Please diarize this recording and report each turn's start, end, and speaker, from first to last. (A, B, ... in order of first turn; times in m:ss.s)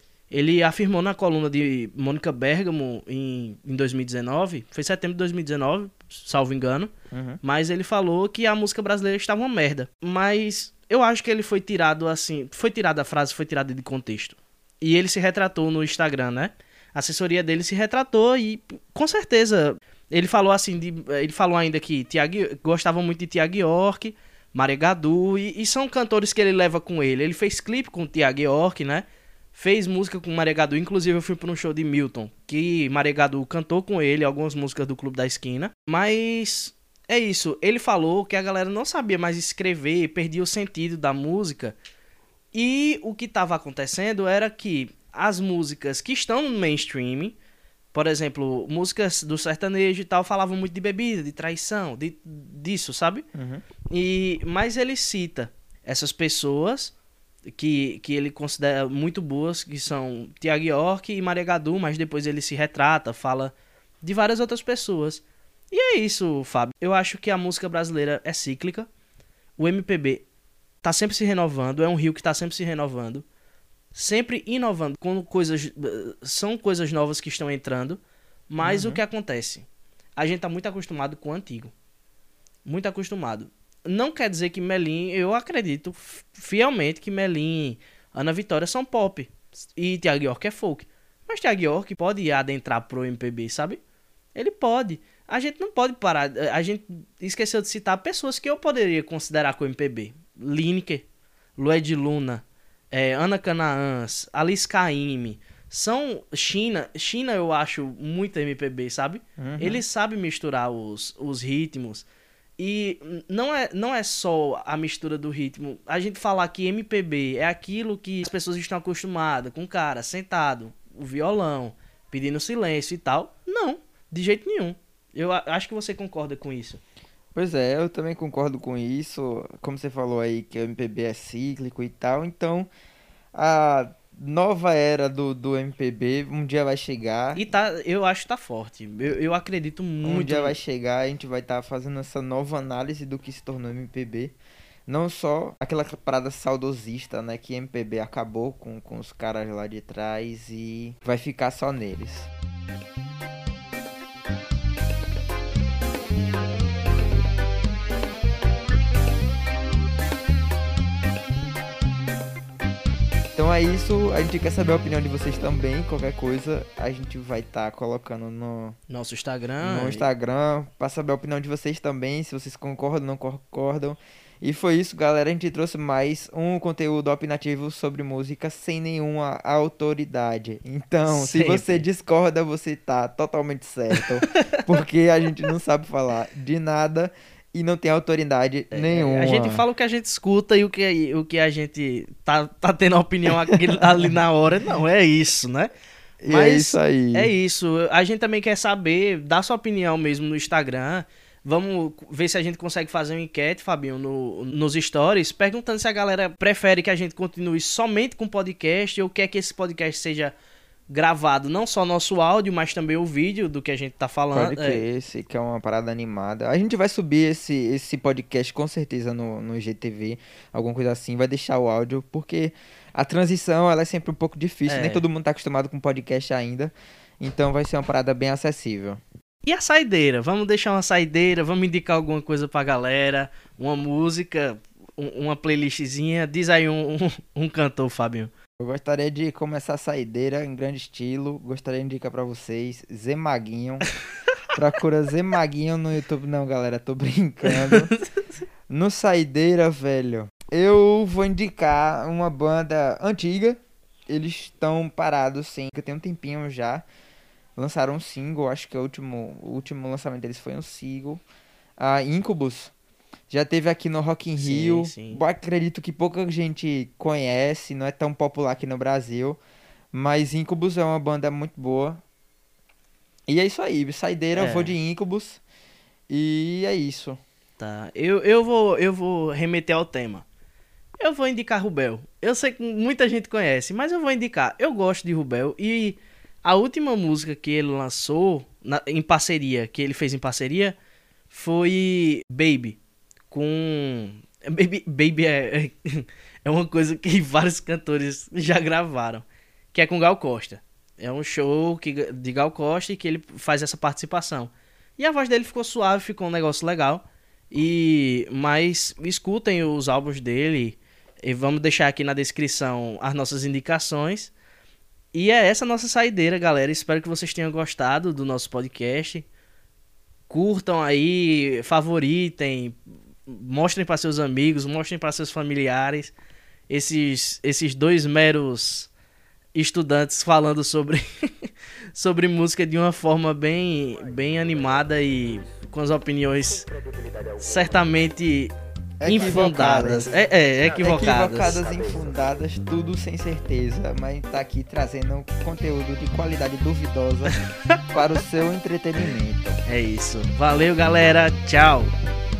0:00.3-0:41.8 A
0:07.1-0:07.4 B
0:42.5-0:47.4 A
0:47.9-0:53.2 A
0:53.3-0:53.6 B
0:53.9-0:56.9 A
0:57.5-1:08.9 A
1:09.6-1:10.2 A
1:10.8-1:13.2 A
1:13.9-1:19.6 A
1:18.6-1:19.0 B
1:20.2-1:21.7 A
1:22.6-1:33.8 A
1:34.3-1:41.0 A
1:41.6-1:52.1 A
1:49.4-1:49.8 B
1:52.6-2:06.8 A
2:07.3-2:12.7 B
2:13.3-2:17.5 B
2:17.3-2:20.5 A
2:20.0-2:24.4 B
2:24.9-2:32.3 B
2:43.3-2:48.8 B
2:48.9-2:50.0 A
2:49.6-3:09.6 B
3:01.1-3:01.8 A
3:04.3-3:04.6 A
3:08.7-3:15.7 A
3:13.4-3:14.1 B
3:16.2-3:17.3 B
3:16.2-3:30.3 A
3:30.9-3:34.8 A
3:34.3-3:49.0 B
3:44.7-3:45.0 A
3:49.4-3:58.3 A
3:58.6-4:03.9 B
4:04.5-4:07.9 B
4:07.4-4:08.2 A
4:08.7-4:16.8 B
4:17.6-4:21.2 B
4:21.8-4:22.7 B
4:23.3-4:29.4 B
4:24.4-4:25.2 A
4:29.9-4:32.0 B
4:33.3-4:35.4 B
4:34.3-4:34.8 A
4:36.1-4:37.2 B
4:37.6-4:40.2 A
4:41.0-4:50.8 A
4:51.3-4:52.8 A
4:53.3-5:14.3 A
5:15.1-5:19.3 A
5:20.3-5:26.1 A
5:26.7-5:28.9 A
5:29.5-5:36.7 A
5:37.4-5:41.6 A
5:39.0-5:47.3 B
5:47.3-5:47.8 A
5:47.9-5:49.6 B
5:49.6-5:51.9 A